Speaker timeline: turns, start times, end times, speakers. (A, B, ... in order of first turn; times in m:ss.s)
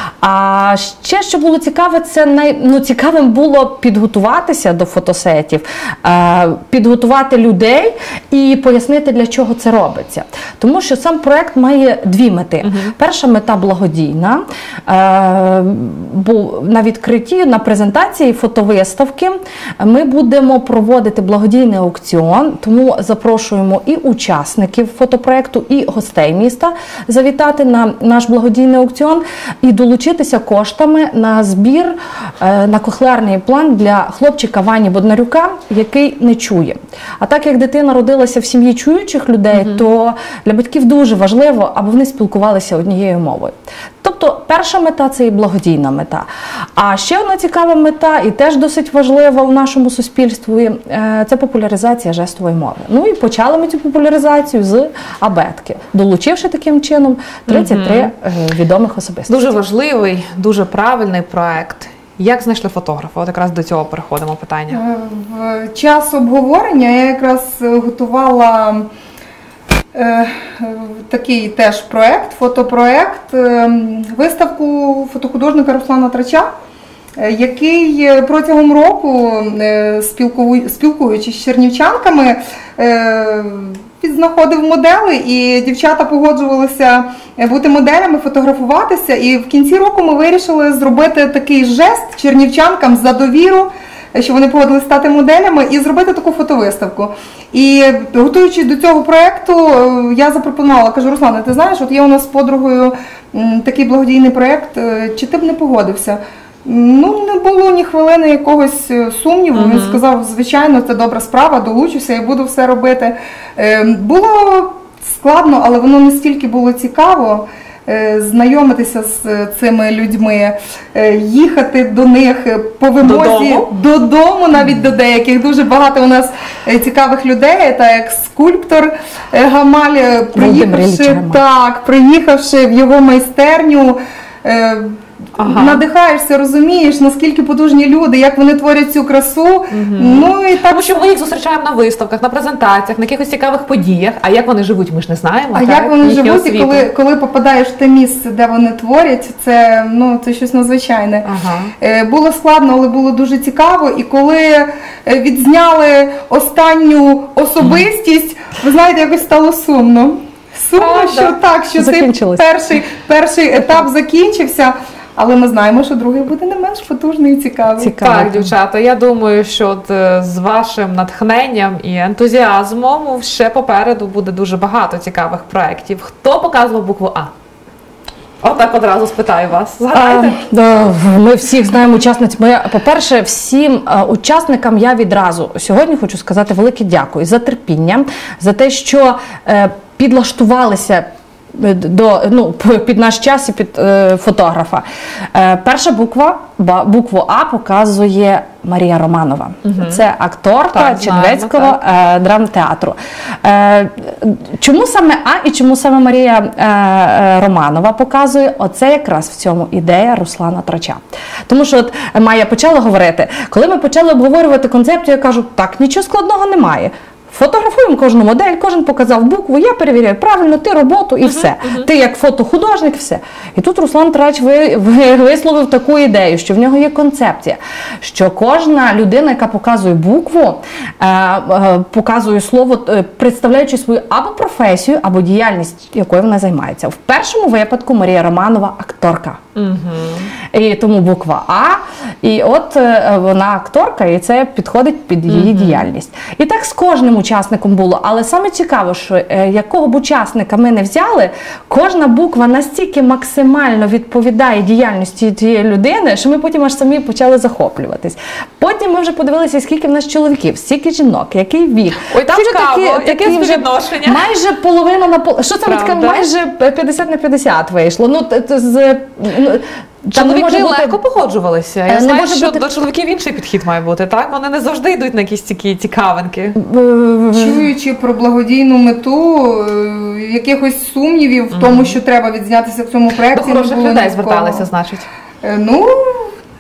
0:00.2-0:59.6 A
0:12.6-0:12.9 B
0:57.5-0:58.1 B
0:59.3-1:04.8 B
1:04.7-1:08.9 C
1:09.9-1:16.5 C
1:17.2-2:21.2 C
1:49.5-1:50.0 B
2:03.0-2:03.7 B
2:10.4-2:11.4 A
2:15.4-2:15.8 B
2:19.7-2:26.9 B
2:25.5-2:31.3 C
2:31.2-2:31.7 B
2:31.8-2:48.0 C
2:40.8-2:41.4 B
2:41.8-2:42.5 A
2:47.8-2:48.5 A
2:47.9-2:57.3 B
2:58.4-3:00.4 B
2:59.9-3:59.4 A
3:19.6-3:20.0 B
3:20.7-3:21.8 B
3:41.4-3:41.9 B
3:59.6-4:00.3 B
4:00.5-4:31.0 A
4:05.3-4:05.8 B
4:22.1-4:24.2 B
4:25.6-4:26.3 B
4:30.1-4:36.6 B
4:31.9-4:32.6 A
4:36.6-4:37.6 A
4:37.3-4:44.7 C
4:41.5-4:42.0 B
4:43.3-4:45.1 B
4:45.4-4:46.3 C